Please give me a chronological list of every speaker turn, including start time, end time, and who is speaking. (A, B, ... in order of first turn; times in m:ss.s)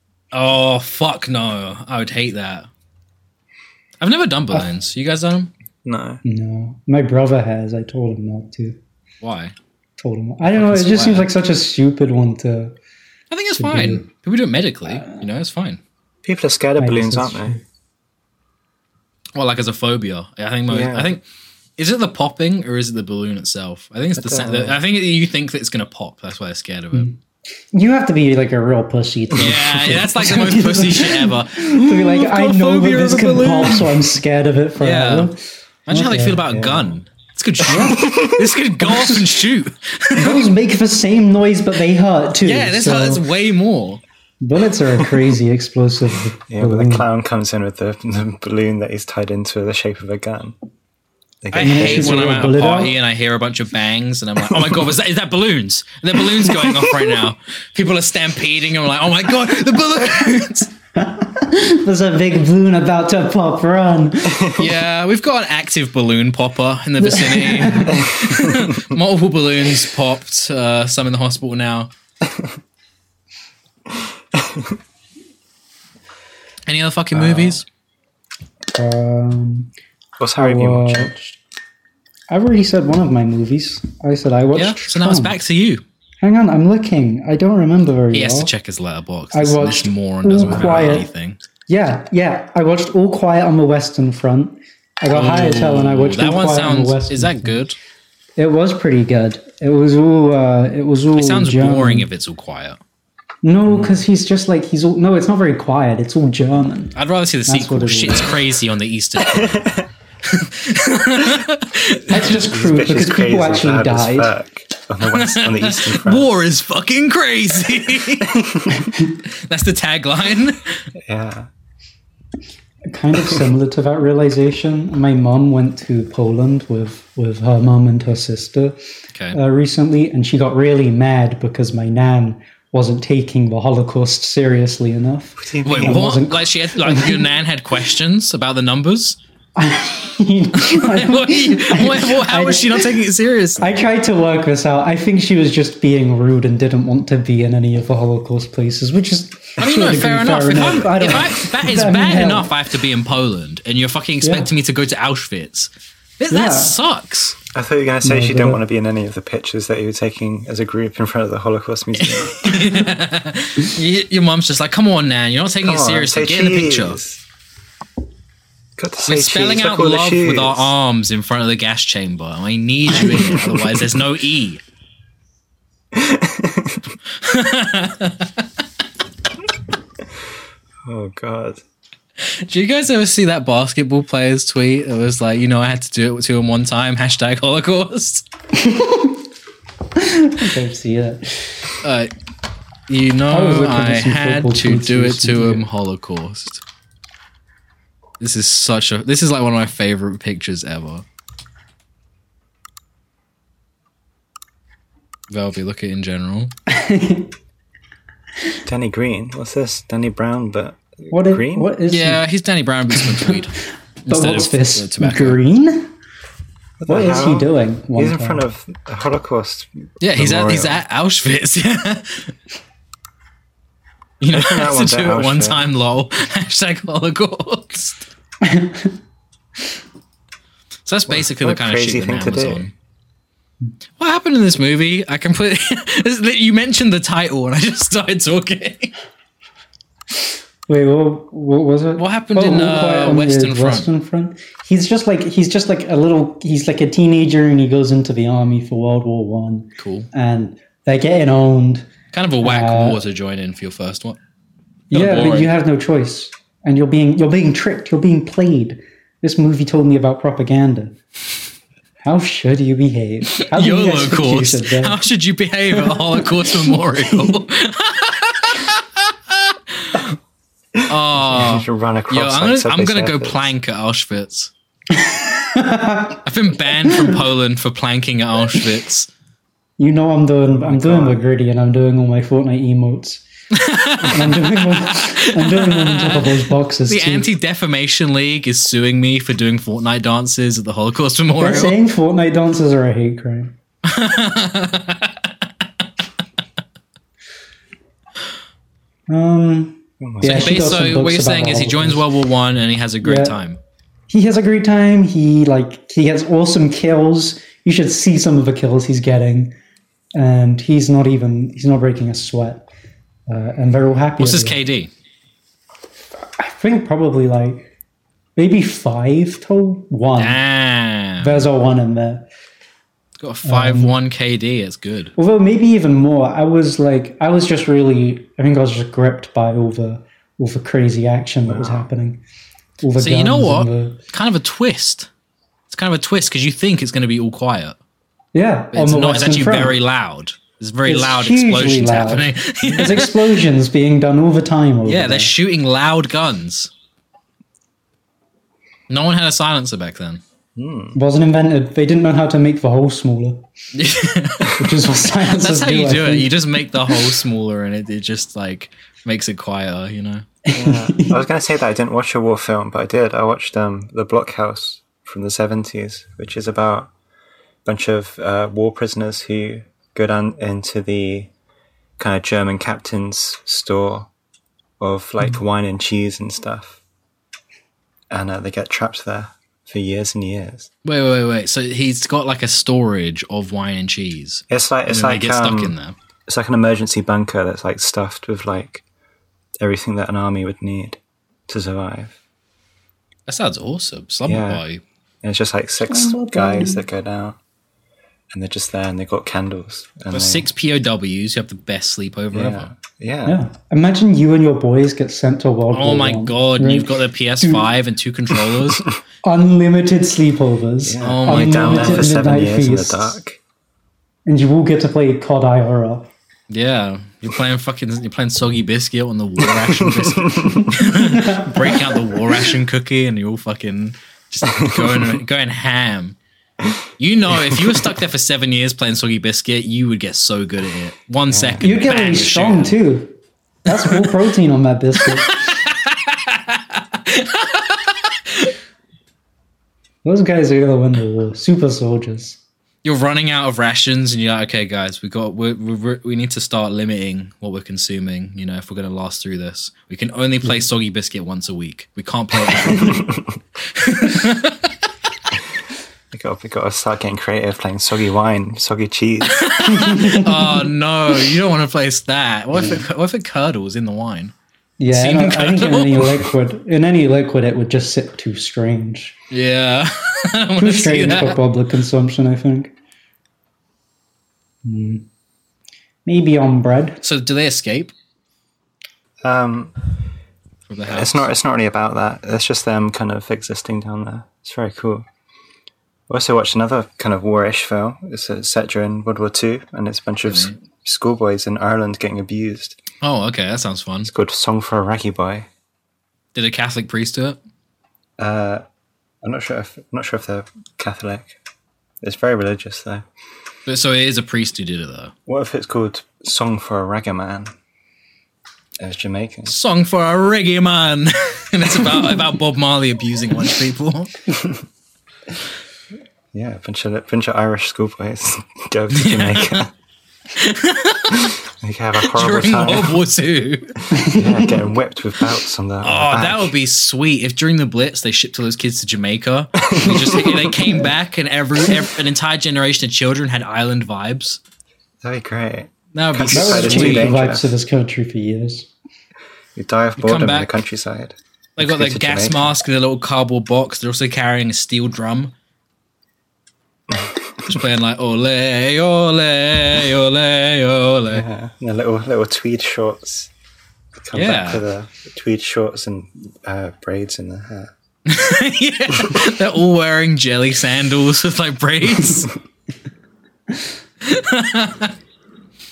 0:00.3-0:02.7 A
0:04.0-0:05.5 A
0:05.8-0:06.2 B
0:06.2-0:08.8 C
0:09.2-0:09.5 A
0:10.0-0:12.7 C
0:10.5-0:11.3 A
0:13.3-0:15.8 A
0:13.6-0:14.0 C
0:16.2-0:17.6 B
0:16.8-0:17.6 C
0:19.3-0:21.2 A
0:20.7-0:21.1 B
0:21.8-0:27.1 A
0:24.2-0:24.8 B
0:27.7-0:35.4 C
0:29.4-0:33.9 A
0:34.8-0:35.3 A
0:35.9-0:40.4 A
0:35.9-0:36.4 C
0:36.5-0:36.9 B
0:37.6-0:38.2 C
0:38.0-0:38.4 B
0:38.8-0:39.4 C
0:40.2-0:43.2 C
0:42.4-0:44.0 A
0:44.4-0:47.1 C
0:46.5-0:50.5 B
0:51.4-0:52.5 B
0:51.5-1:00.7 A
0:51.6-0:52.9 C
0:54.5-0:54.8 B
1:01.0-1:04.7 C
1:04.6-1:11.9 A
1:07.0-1:08.1 C
1:08.0-1:08.8 B
1:13.9-1:14.8 B
1:16.7-1:17.6 A
1:17.2-1:17.5 B
1:18.7-1:19.7 C
1:20.2-1:21.1 B
1:20.4-1:21.4 C
1:22.3-1:25.4 C
1:24.5-1:25.8 A
1:26.2-1:28.5 C
1:28.1-1:31.4 A
1:29.3-1:31.1 C
1:30.4-1:31.0 B
1:31.7-1:37.6 C
1:35.1-1:37.8 A
1:38.4-1:42.1 C
1:41.2-1:42.8 A
1:43.4-1:47.0 C
1:43.7-1:43.9 B
1:46.9-1:49.7 A
1:47.5-1:48.4 C
1:49.2-1:49.9 B
1:50.2-1:52.4 A
1:52.1-1:54.3 C
1:52.1-1:56.3 B
1:55.0-1:58.4 A
1:58.2-1:58.8 B
1:59.2-2:00.8 A
2:01.0-2:01.5 B
2:02.9-2:08.8 C
2:09.3-2:17.3 C
2:15.4-2:16.1 B
2:15.6-2:19.2 A
2:19.6-2:23.0 C
2:20.5-2:23.6 A
2:23.6-2:32.5 C
2:29.6-2:37.4 A
2:34.2-2:34.5 C
2:36.3-2:36.8 C
2:37.5-2:42.5 B
2:38.0-2:38.6 C
2:42.0-2:47.0 A
2:45.6-2:47.2 B
2:48.8-2:50.7 B
2:49.0-2:54.6 A
2:53.2-2:53.6 B
2:55.9-2:56.9 B
2:57.2-2:58.4 A
3:00.8-3:01.6 B
3:02.2-3:08.2 A
3:08.6-3:09.2 C
3:09.9-3:11.7 C
3:11.8-3:12.1 A
3:12.9-3:16.6 A
3:13.3-3:15.6 C
3:18.2-3:21.0 A
3:25.3-3:26.5 A
3:26.7-3:27.3 C
3:28.6-3:31.7 B
3:31.1-3:32.2 C
3:31.9-3:35.4 A
3:33.0-3:33.4 C
3:34.1-3:35.9 C
3:36.8-3:40.8 B
3:36.9-3:38.4 C
3:40.0-3:42.3 A
3:44.2-3:48.0 A
3:44.3-3:45.6 B
3:48.4-3:48.9 C
3:50.8-3:52.7 A
3:51.1-3:52.6 B
3:54.0-3:58.9 A
4:00.7-4:11.9 C
4:02.0-4:03.9 A
4:09.8-4:10.1 A
4:12.1-4:14.2 A
4:12.4-4:13.0 C
4:14.9-4:15.5 A
4:14.9-4:21.0 C
4:22.0-4:25.0 C
4:23.4-4:30.2 A
4:25.7-4:27.4 C
4:30.7-4:33.5 B
4:30.9-4:34.5 A
4:34.9-4:36.2 C
4:36.2-4:39.1 A
4:36.8-4:37.2 C
4:39.8-4:43.2 C
4:40.5-4:41.2 B
4:43.5-4:51.8 A
4:44.0-4:47.3 C
4:51.4-4:53.5 C
4:53.8-4:55.3 A
4:59.1-5:02.0 C
5:00.0-5:00.6 B
5:00.2-5:03.6 A
5:03.0-5:03.4 C
5:04.1-5:09.5 C
5:10.1-5:12.7 C
5:13.3-5:14.6 C
5:14.2-5:14.9 A
5:16.4-5:17.7 C
5:18.4-5:20.4 C
5:20.2-5:21.4 A
5:21.2-5:22.2 C
5:23.2-5:25.1 A
5:23.4-5:23.9 C
5:25.2-5:32.2 C
5:31.4-5:31.9 B
5:32.8-5:34.0 C
5:33.0-5:35.1 A
5:35.7-5:37.8 A
5:38.3-5:39.8 C
5:38.7-5:43.1 A
5:40.8-5:45.3 C
5:42.6-5:43.1 B
5:44.8-5:46.7 A
5:48.9-5:50.2 A
5:50.6-5:51.0 B
5:50.9-5:53.5 C
5:53.7-5:54.6 A
5:54.6-5:56.4 C
5:55.2-6:00.2 A
6:00.4-6:01.3 C
6:00.5-6:06.9 B
6:07.6-6:11.3 B
6:12.0-6:14.1 B
6:14.8-6:16.8 B
6:18.1-6:20.7 B
6:20.8-6:25.9 A
6:24.5-6:25.7 B
6:26.3-6:28.8 B
6:29.6-6:32.2 B
6:33.3-6:34.8 A
6:34.2-6:34.6 B
6:35.2-6:37.4 B
6:35.8-6:36.8 C
6:38.3-6:40.5 B
6:40.1-6:42.7 A
6:42.3-6:43.4 B
6:43.2-6:47.7 C
6:45.7-6:48.9 A
6:49.2-6:53.2 C
6:50.8-6:53.4 B
6:51.0-6:52.1 A
6:54.2-6:56.1 C
6:56.5-7:06.2 A
6:59.4-7:00.7 B
7:00.9-7:01.9 C
7:04.5-7:05.2 B
7:07.0-7:12.8 A
7:07.5-7:07.8 B
7:11.3-7:11.7 B
7:11.6-7:13.1 C
7:13.6-7:15.5 C
7:13.7-7:14.0 A
7:15.0-7:18.5 A
7:20.0-7:22.4 C
7:22.8-7:33.1 A
7:32.6-7:33.3 B
7:33.6-7:34.9 A
7:36.1-7:39.5 B
7:39.3-7:44.3 A
7:39.6-7:40.7 C
7:42.5-7:42.8 B
7:44.8-7:49.2 C
7:44.9-7:46.2 A
7:49.3-7:51.4 A
7:50.6-7:52.7 C
7:54.6-7:55.0 C
7:56.0-7:57.0 C
7:57.0-7:57.9 A
7:59.2-7:59.7 B
8:00.7-8:01.3 A
8:00.9-8:05.0 B
8:06.1-8:12.8 B
8:10.3-8:10.6 A
8:13.0-8:14.1 A
8:14.0-8:15.5 B
8:16.3-8:17.4 A
8:18.2-8:18.6 B
8:19.2-8:21.4 B
8:22.0-8:23.0 B
8:23.6-8:25.1 A
8:25.3-8:27.5 B
8:28.8-8:29.5 B
8:29.4-8:34.1 A
8:36.3-8:39.7 B
8:38.9-8:39.6 A
8:40.3-8:41.4 A
8:41.2-8:43.0 B
8:42.0-8:43.8 A
8:43.9-8:44.6 C
8:44.0-8:46.5 B
8:45.8-8:54.4 A
8:49.6-8:50.6 B
8:55.0-8:57.5 B
8:55.9-8:57.1 A
8:56.3-8:58.7 C
8:59.6-9:02.5 B
9:00.0-9:00.5 A
9:01.6-9:05.3 A
9:07.4-9:11.2 A
9:11.1-9:13.3 B
9:14.0-9:17.7 B
9:14.1-9:14.6 A
9:18.0-9:22.3 A
9:24.0-9:24.9 A